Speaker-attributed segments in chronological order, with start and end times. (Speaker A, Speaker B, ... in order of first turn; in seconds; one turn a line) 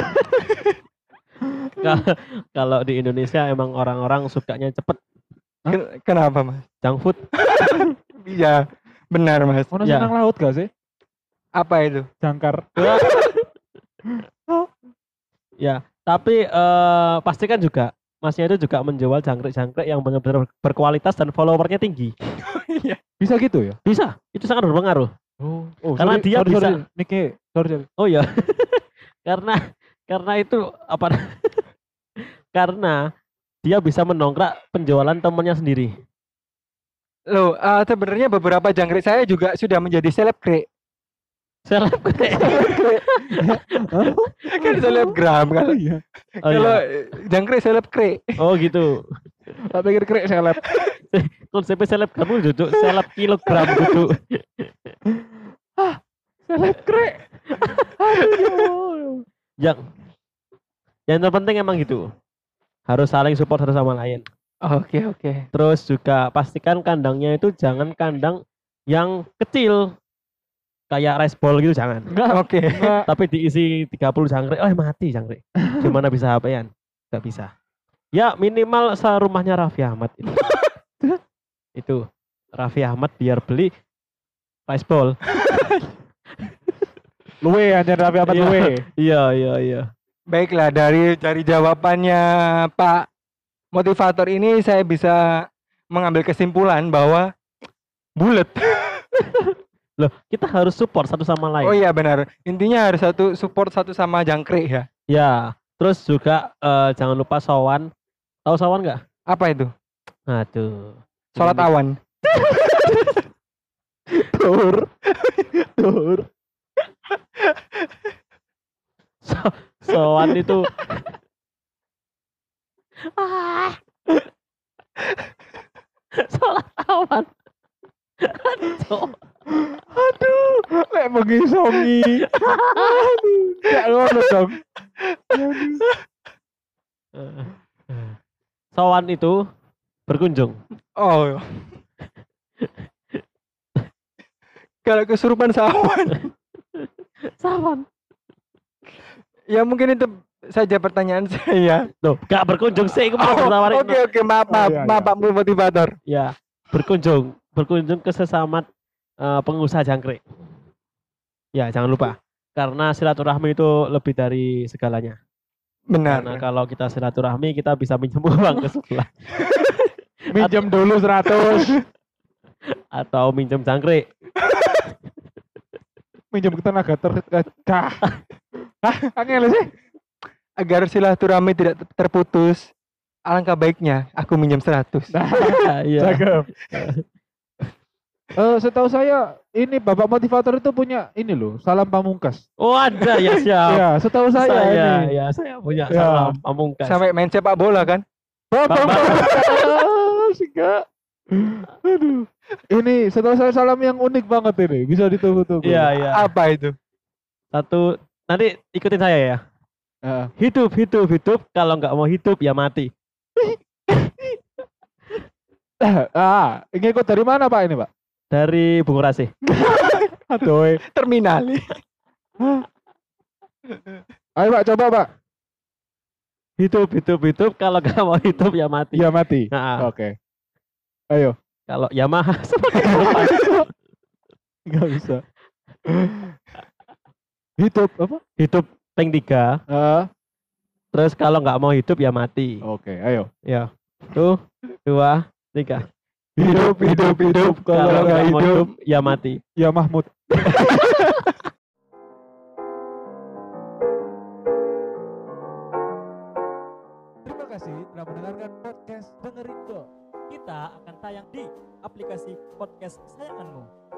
Speaker A: 0.3-0.7
Speaker B: 1.8-5.0
Speaker A: 5.7-6.6
Speaker B: 6.8-7.2
Speaker A: 7.4-9.7
Speaker C: 9.7-10.7
Speaker B: 9.8-10.1
Speaker A: 11.6-12.1
Speaker C: 12.2-13.3
Speaker B: 12.8-13.4
Speaker B: 15.6-22.1
Speaker A: 22.4-23.0
Speaker C: 23.2-23.8
Speaker B: 23.8-25.1
Speaker C: 25.4-27.9
Speaker B: 25.9-26.8
Speaker B: 28.0-31.6
Speaker B: 32.5-33.0
Speaker B: 33.6-35.9
Speaker A: 37.3-40.6
Speaker B: 41.6-44.1
Speaker C: 42.3-46.0
Speaker A: 44.5-45.8
Speaker A: 46.4-48.4
Speaker B: 46.4-46.8
Speaker B: 48.4-49.1
Speaker C: 49.7-50.6
Speaker A: 50.6-50.9
Speaker B: 51.1-54.9
Speaker C: 53.6-54.0
Speaker C: 55.8-59.2
Speaker B: 57.6-57.9
Speaker B: 61.1-62.1
Speaker B: 62.9-64.2
Speaker A: 64.6-65.4
Speaker B: 65.5-69.9
Speaker B: 70.9-72.1
Speaker C: 72.1-73.1
Speaker A: 72.3-73.0
Speaker B: 73.0-77.5
Speaker B: 78.1-80.7
Speaker B: 81.8-82.0
Speaker B: 82.6-83.7
Speaker B: 84.7-85.2
Speaker A: 85.4-85.8
Speaker C: 87.4-88.8
Speaker B: 88.3-89.9
Speaker A: 90.3-93.1
Speaker A: 93.7-97.3
Speaker A: 98.2-99.0
Speaker B: 99.3-101.8
Speaker A: 101.6-104.9
Speaker B: 105.1-107.9
Speaker B: 108.5-109.0
Speaker A: 109.3-109.7
Speaker B: 110.3-111.7
Speaker A: 111.3-111.9
Speaker B: 112.3-113.2
Speaker B: 114.2-114.8
Speaker A: 115.2-115.4
Speaker C: 115.8-116.2
Speaker B: 119.2-121.1
Speaker B: 123.1-123.8
Speaker B: 126.2-127.3
Speaker B: 128.2-129.2
Speaker C: 129.8-134.6
Speaker B: 132.3-133.1
Speaker A: 135.3-135.9
Speaker C: 135.3-135.8
Speaker B: 137.2-138.2
Speaker B: 138.7-139.3
Speaker B: 140.1-140.5
Speaker A: 141.0-141.7
Speaker A: 144.8-146.3
Speaker B: 146.7-147.8
Speaker A: 149.5-151.8
Speaker B: 152.0-154.0
Speaker A: 152.8-155.9
Speaker C: 154.5-155.1
Speaker B: 156.1-158.6
Speaker B: 159.2-160.2
Speaker B: 161.5-165.2
Speaker A: 165.9-166.4
Speaker B: 166.1-170.8
Speaker C: 170.3-171.8
Speaker B: 172.9-174.0
Speaker A: 174.5-174.8
Speaker C: 176.3-178.1
Speaker C: 178.8-179.7
Speaker A: 180.6-182.7
Speaker A: 183.3-185.1
Speaker C: 185.1-186.5
Speaker B: 185.4-187.0
Speaker C: 188.3-192.4
Speaker B: 192.6-197.0
Speaker C: 193.7-195.1
Speaker C: 195.9-196.4
Speaker A: 196.8-198.0
Speaker C: 198.5-200.8
Speaker B: 198.7-199.4
Speaker A: 198.9-199.3
Speaker C: 201.3-205.9
Speaker B: 205.6-206.3
Speaker A: 205.9-206.7
Speaker B: 207.5-209.4
Speaker C: 210.0-210.3
Speaker B: 210.4-212.9
Speaker C: 215.8-217.9
Speaker B: 218.3-219.3
Speaker C: 219.5-220.8
Speaker A: 219.8-221.8
Speaker C: 222.4-222.7
Speaker C: 224.3-225.1
Speaker B: 226.6-229.9
Speaker C: 228.9-230.1
Speaker B: 231.7-233.6
Speaker C: 232.8-233.7
Speaker C: 234.7-235.2
Speaker C: 235.9-236.3
Speaker C: 237.6-238.2
Speaker B: 238.4-239.6
Speaker C: 239.7-240.1
Speaker B: 240.9-242.6
Speaker C: 242.6-243.3
Speaker B: 243.4-245.8
Speaker C: 246.4-248.7
Speaker A: 246.4-248.7
Speaker B: 247.5-249.4
Speaker C: 249.6-251.1
Speaker B: 250.5-251.1
Speaker C: 257.2-259.9
Speaker D: 260.3-263.7